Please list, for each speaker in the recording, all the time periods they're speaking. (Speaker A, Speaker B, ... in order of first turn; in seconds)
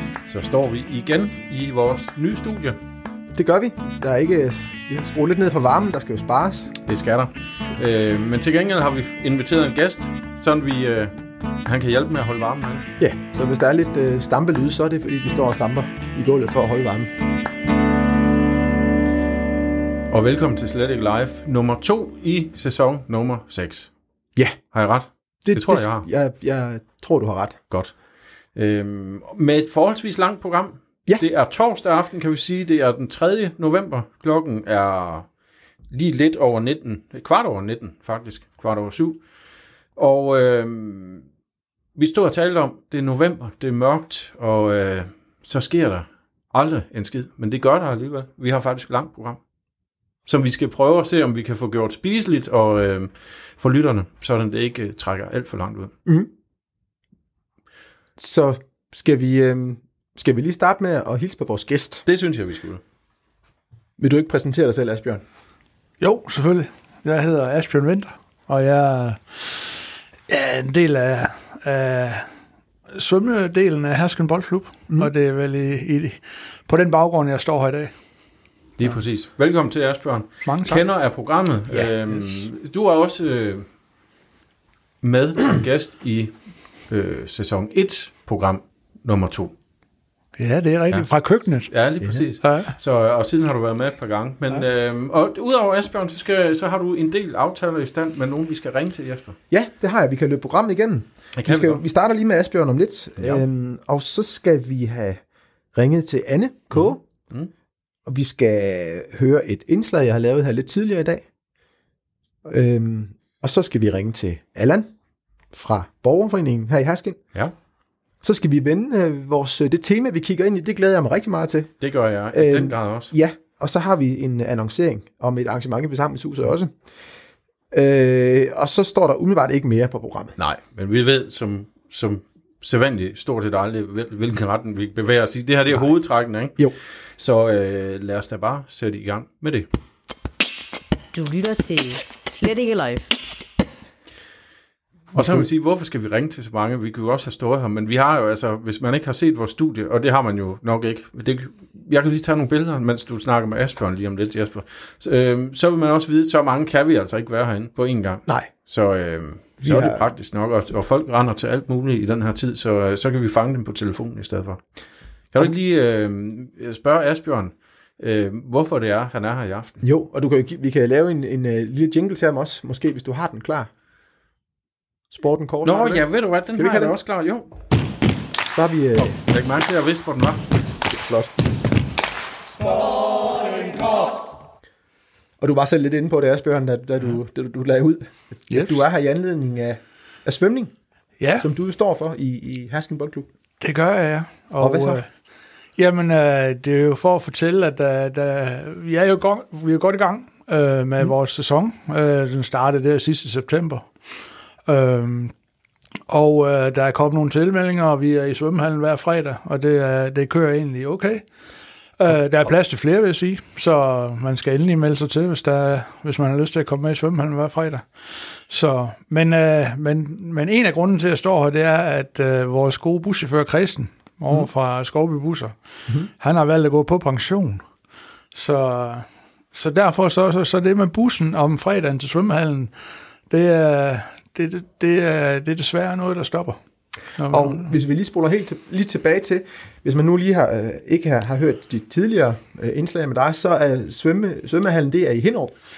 Speaker A: 0.2-2.8, 6.8-12.9, 20.1-23.9, 24.7-26.1, 27.7-35.3, 35.9-39.2, 40.0-41.2, 42.0-49.4, 50.2-55.9, 62.0-62.8, 78.8-83.7, 85.0-89.5, 90.9-99.4, 101.3-101.8, 103.2-103.4, 106.7-107.5, 121.8-123.1, 130.4-139.7, 145.1-164.7, 165.3-169.8, 175.6-177.5, 179.0-180.4
Speaker B: 3.3-6.8, 13.0-17.1, 24.4-24.6, 25.4-27.6, 58.2-62.0, 64.0-65.2, 99.5-107.0, 108.0-111.2, 112.4-114.9, 115.5-117.3, 118.2-126.7, 127.7-130.3, 145.1-145.5, 159.6-160.1, 169.8-173.7, 175.1-177.0, 178.5-179.1, 180.9-181.3, 185.4-190.8, 191.4-193.3, 194.6-195.0, 237.3-245.6
Speaker C: 66.0-69.7, 70.3-72.4, 72.9-78.4, 80.4-80.9, 81.7-82.4, 90.3-92.7, 188.5-188.8, 191.2-191.5, 193.6-205.3, 206.1-227.7, 228.3-236.6, 237.1-237.7
Speaker D: 141.1-143.1